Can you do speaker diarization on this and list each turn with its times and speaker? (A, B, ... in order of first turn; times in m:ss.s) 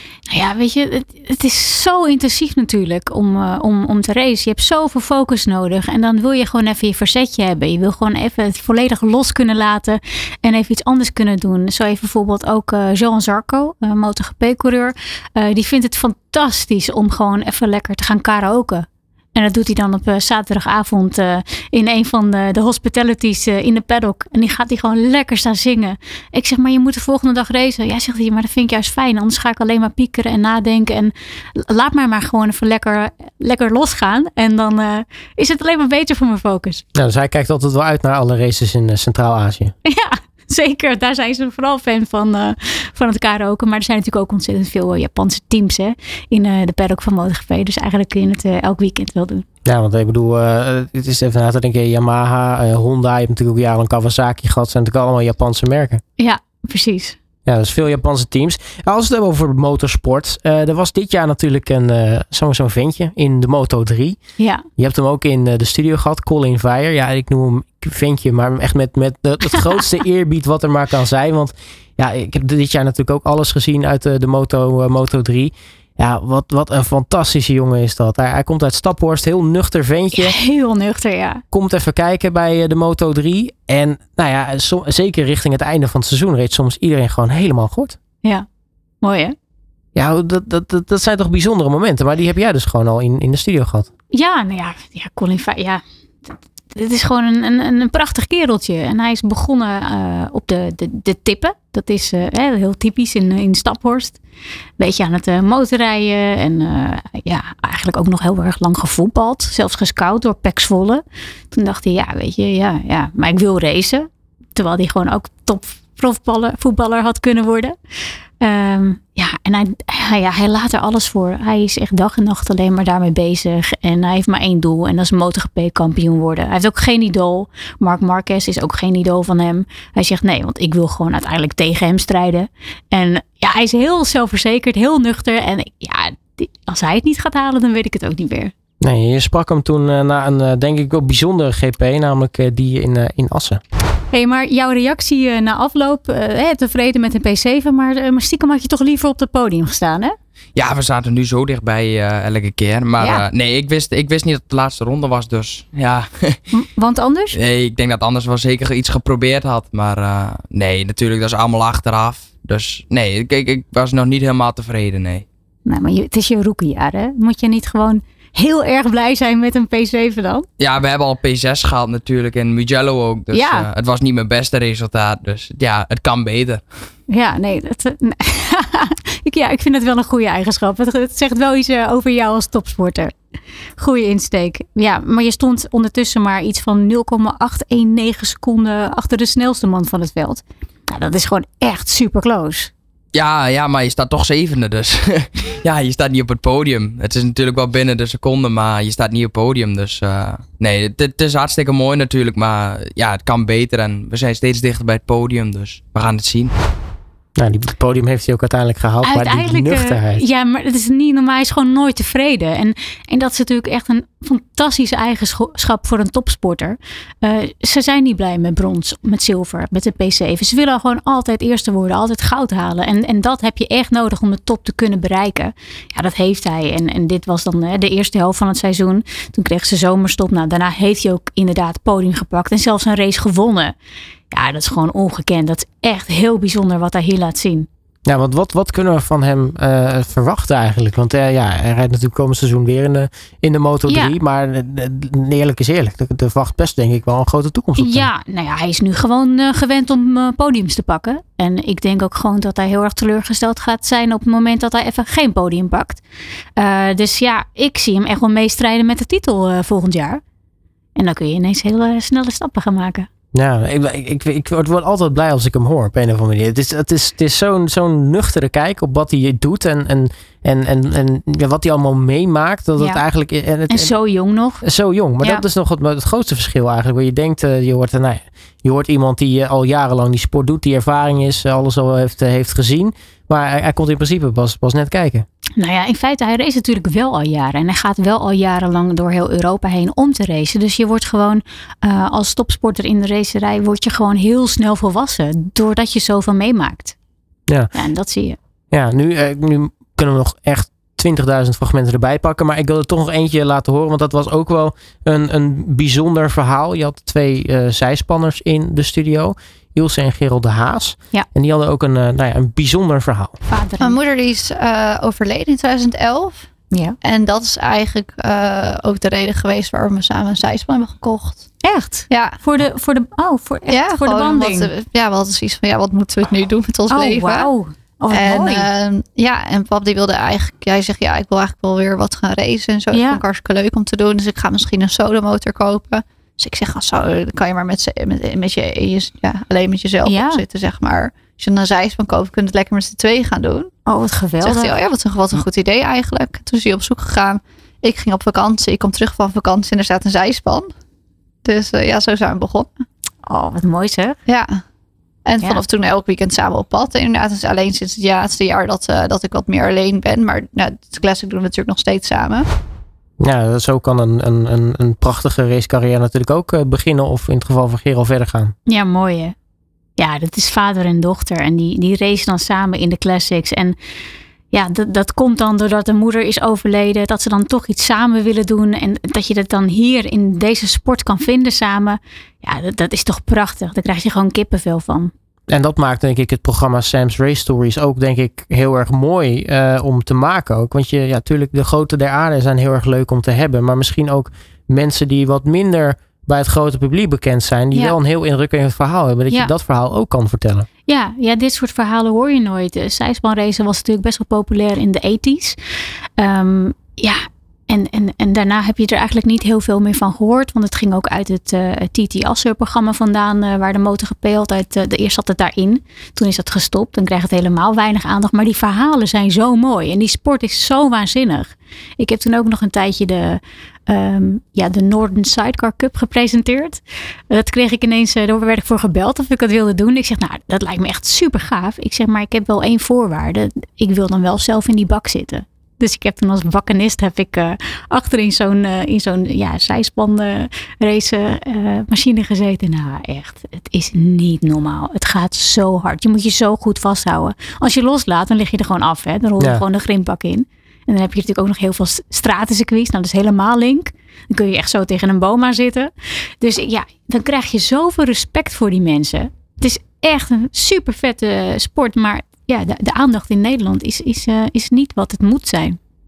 0:00.3-0:36.8 A
0:37.0-0:39.7 B
0:39.8-0:49.4 A
0:49.6-0:56.0 B
0:56.2-0:57.2 A
0:57.5-1:04.2 B
1:04.4-1:04.6 A
1:04.8-1:20.4 B
1:20.1-1:21.4 A
1:21.5-1:28.0 B
1:29.0-1:29.4 A
1:30.0-1:33.9 B
1:34.1-1:44.2 A
1:44.8-1:57.8 A
1:58.4-2:18.5 A
2:18.8-2:23.6 B
2:24.1-2:30.2 A
2:30.6-2:36.4 C
2:33.0-2:33.2 A
2:36.5-2:37.4 A
2:37.3-2:45.2 C
2:45.6-2:50.5 A
2:50.6-2:56.7 C
2:53.3-2:53.6 A
2:57.1-3:03.1 A
3:03.8-3:12.7 A
3:13.1-3:26.5 C
3:27.4-3:30.2 B
3:29.0-3:53.8 A
3:54.3-3:57.7 A
3:58.1-4:08.1 B
4:03.9-4:04.2 A
4:07.8-4:16.0 A
4:16.6-4:20.2 A
4:21.0-4:23.1 A
4:23.3-4:33.9 B
4:33.7-4:34.6 A
4:34.6-4:45.3 B
4:45.6-4:56.9 A
4:57.7-4:58.4 A
4:58.7-5:13.4 B
5:13.5-5:14.0 A
5:13.8-5:16.5 D
5:16.7-5:17.0 A
5:17.0-5:21.5 D
5:21.6-5:24.7 A
5:22.1-5:22.4 D
5:23.7-5:27.5 D
5:26.9-5:28.7 A
5:28.1-5:43.7 D
5:32.9-5:33.2 A
5:40.1-5:40.4 A
5:43.9-5:44.8 A
5:44.4-5:50.7 D
5:51.4-5:52.7 D
5:53.2-5:54.2 A
5:54.3-5:54.6 D
5:55.3-6:02.4 D
6:03.2-6:08.5 B
6:08.7-6:09.4 A
6:10.0-6:13.8 A
6:14.5-6:25.1 A
6:25.5-6:40.7 B
6:40.9-6:45.6 A
6:46.2-7:45.8 A